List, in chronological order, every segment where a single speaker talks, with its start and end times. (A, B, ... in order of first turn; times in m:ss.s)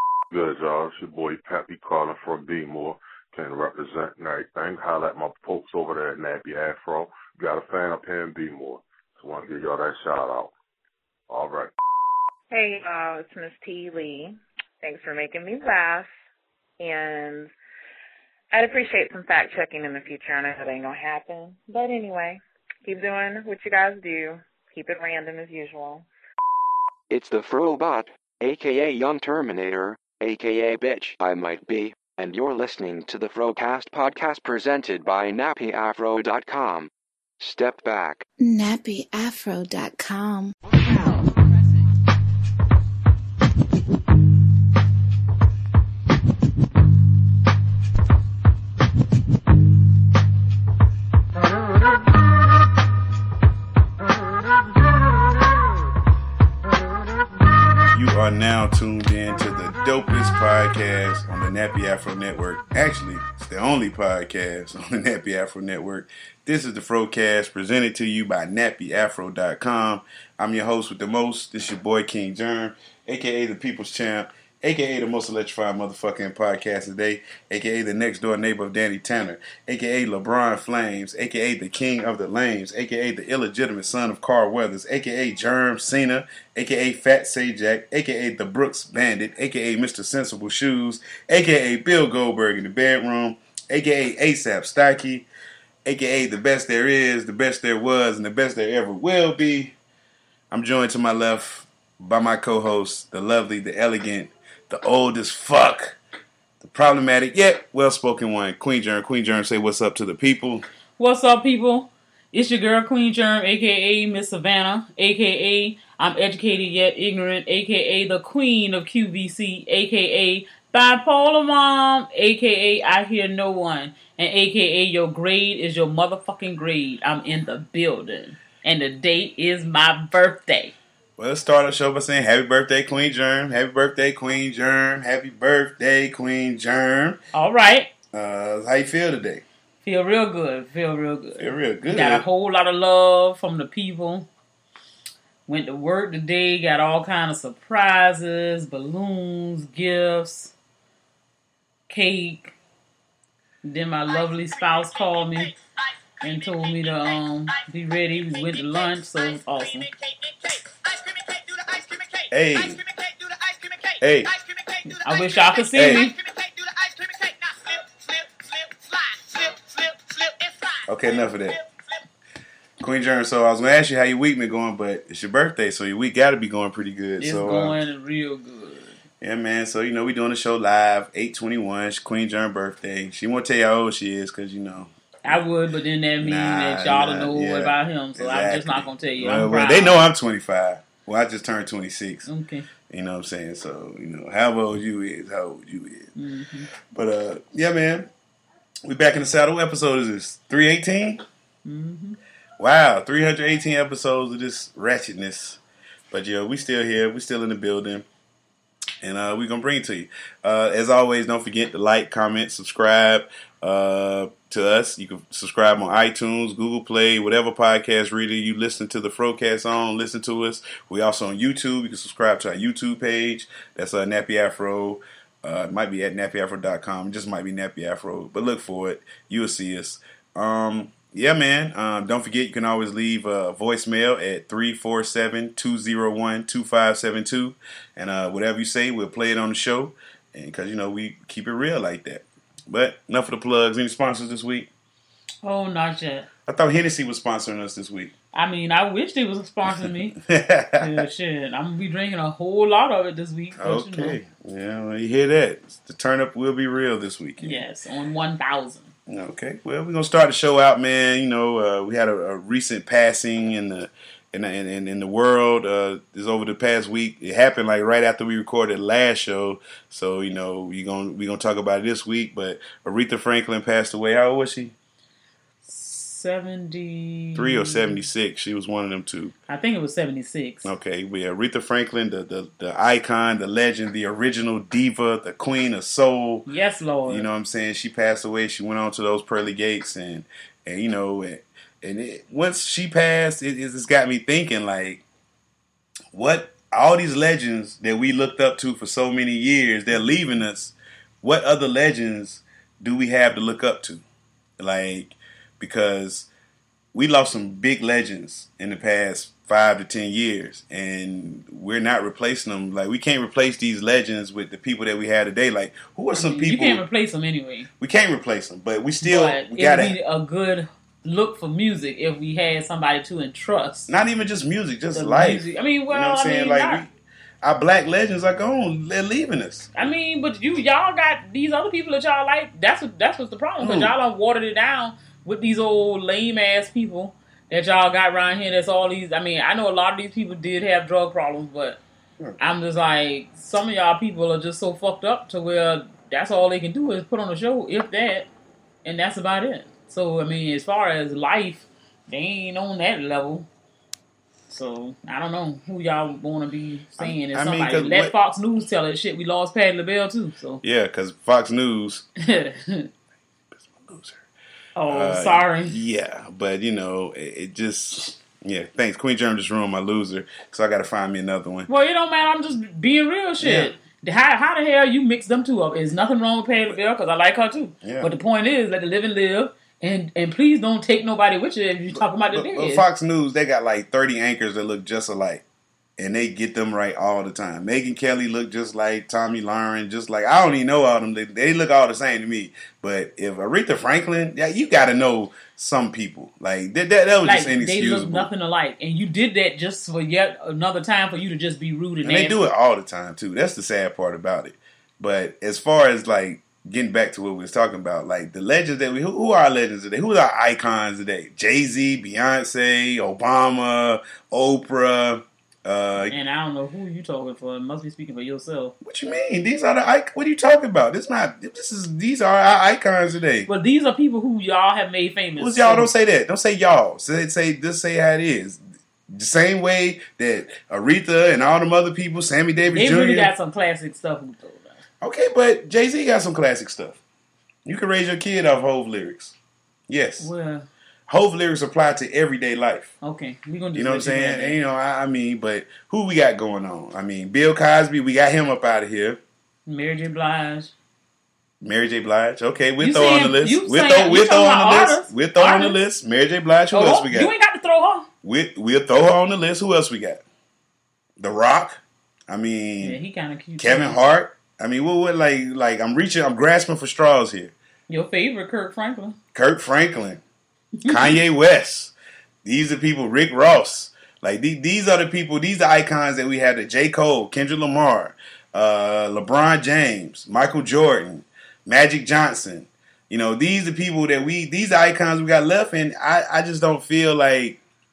0:00.3-0:10.5 A
0:11.3-0:11.7 A
0:12.5-0:16.1 B
0:16.8-0:17.5 B
0:18.5-0:26.0 B
0:27.1-0:38.2 C
0:38.4-0:40.5 D
0:57.9-1:35.3 E
1:35.8-1:39.7 E
1:40.5-1:46.0 E
1:46.6-1:50.6 E
1:51.0-2:10.7 F
2:11.2-2:17.2 E
2:17.3-2:17.9 F
2:18.1-2:19.4 E
2:19.8-2:24.3 F
2:21.4-2:22.2 E
2:25.5-2:30.5 F
2:31.9-2:32.5 F
2:33.6-2:35.5 F
2:36.2-2:39.9 F
2:42.3-2:42.8 E
2:44.0-2:44.4 E
2:44.8-2:46.2 F
2:45.7-2:46.1 E
2:50.8-2:51.6 E
2:52.8-2:57.8 E
2:57.2-2:59.0 F
2:59.2-3:05.4 E
3:05.2-3:10.0 F
3:06.2-3:12.3 E
3:12.3-3:12.7 F
3:12.9-3:16.1 E
3:16.2-3:16.7 F
3:16.9-3:18.1 E
3:18.8-3:21.2 E
3:21.6-3:22.2 F
3:22.6-3:25.6 E
3:26.1-3:28.0 E
3:29.0-4:04.7 E
4:05.4-4:06.3 F
4:06.4-4:08.1 E
4:08.3-4:10.2 F
4:10.1-4:11.0 E
4:10.8-4:14.2 F
4:13.6-4:17.6 E
4:17.4-4:18.9 F
4:19.1-4:34.7 E
4:35.6-4:38.0 F
4:37.4-4:39.3 E
4:39.5-4:40.7 F
4:40.6-4:46.4 E
4:46.5-4:47.2 F
4:47.1-4:55.0 E
4:56.1-5:04.0 E
5:04.6-5:06.3 E
5:06.9-5:16.8 E
5:16.1-5:17.7 F
5:17.8-5:20.0 E
5:19.0-5:23.9 F
5:23.9-5:26.9 E
5:24.9-5:26.8 F
5:27.4-5:29.8 E
5:29.7-5:41.8 F
5:33.6-5:33.9 E
5:42.4-5:48.3 F
5:48.8-5:53.5 F
5:54.5-6:00.6 F
5:57.0-5:58.1 E
6:00.6-6:02.0 E
6:02.2-6:02.9 F
6:03.5-6:04.2 E
6:04.8-6:05.7 F
6:04.9-6:11.7 E
6:11.7-6:22.8 F
6:13.4-6:13.7 E
6:17.8-6:18.1 E
6:22.3-6:25.4 E
6:26.0-6:38.3 E
6:37.2-6:42.4 F
6:42.0-6:56.1 E
6:56.1-6:58.7 F
6:58.8-7:03.5 E
7:03.5-7:05.9 F
7:05.4-7:13.3 E
7:12.7-7:14.8 F
7:15.0-7:17.0 E
7:17.6-7:19.4 E
7:19.9-7:20.3 E
7:20.2-7:20.7 F
7:21.1-7:22.9 E
7:23.0-7:24.6 F
7:23.7-7:29.2 E
7:29.7-7:30.7 F
7:31.6-7:37.3 E
7:32.8-7:35.8 F
7:36.7-7:38.1 F
7:38.2-7:40.2 E
7:41.2-7:43.0 E
7:42.8-7:44.0 F
7:43.6-7:47.5 E
7:47.9-7:49.2 F
7:49.3-7:50.2 E
7:50.8-7:51.2 F
7:50.8-8:07.6 E